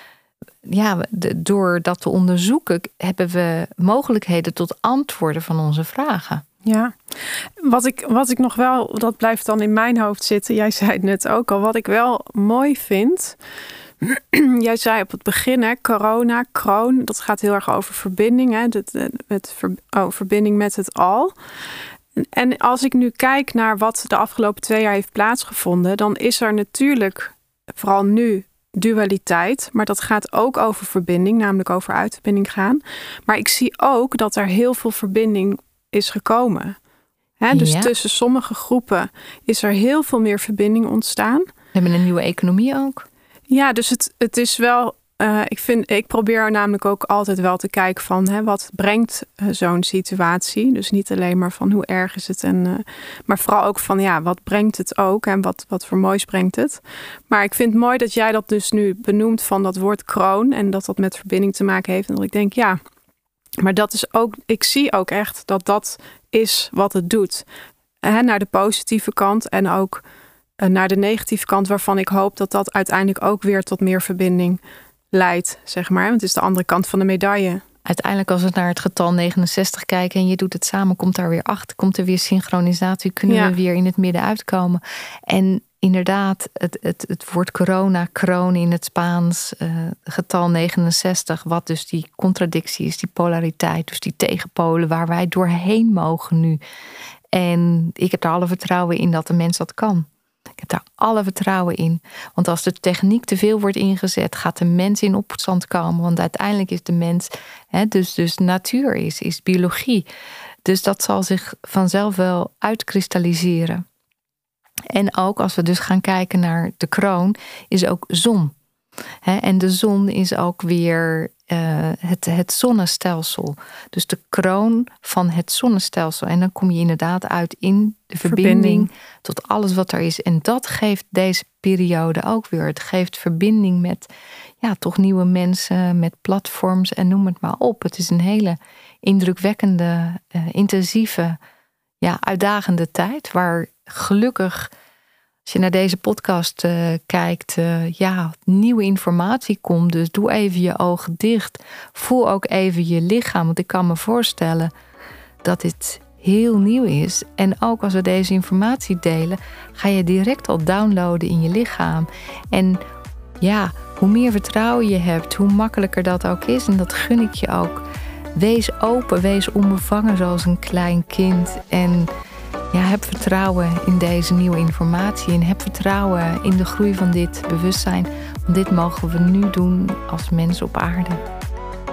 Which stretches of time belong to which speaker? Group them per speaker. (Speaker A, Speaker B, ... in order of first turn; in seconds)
Speaker A: 0.6-6.4, 37.5-37.9, 41.7-43.0, 77.9-96.6, 97.3-100.1, 100.6-110.1, 110.7-113.8, 114.9-118.5, 119.2-134.1, 134.6-141.4, 142.0-144.7, 145.5-154.7, 155.4-162.8, 163.4-167.8, 168.3-172.1, 172.7-181.2
Speaker B: 6.6-13.4, 14.0-21.4, 22.2-36.8, 37.4-41.5, 43.5-62.8, 63.6-67.5, 68.0-70.0, 70.6-74.6, 75.1-77.6, 83.3-83.6, 128.2-128.9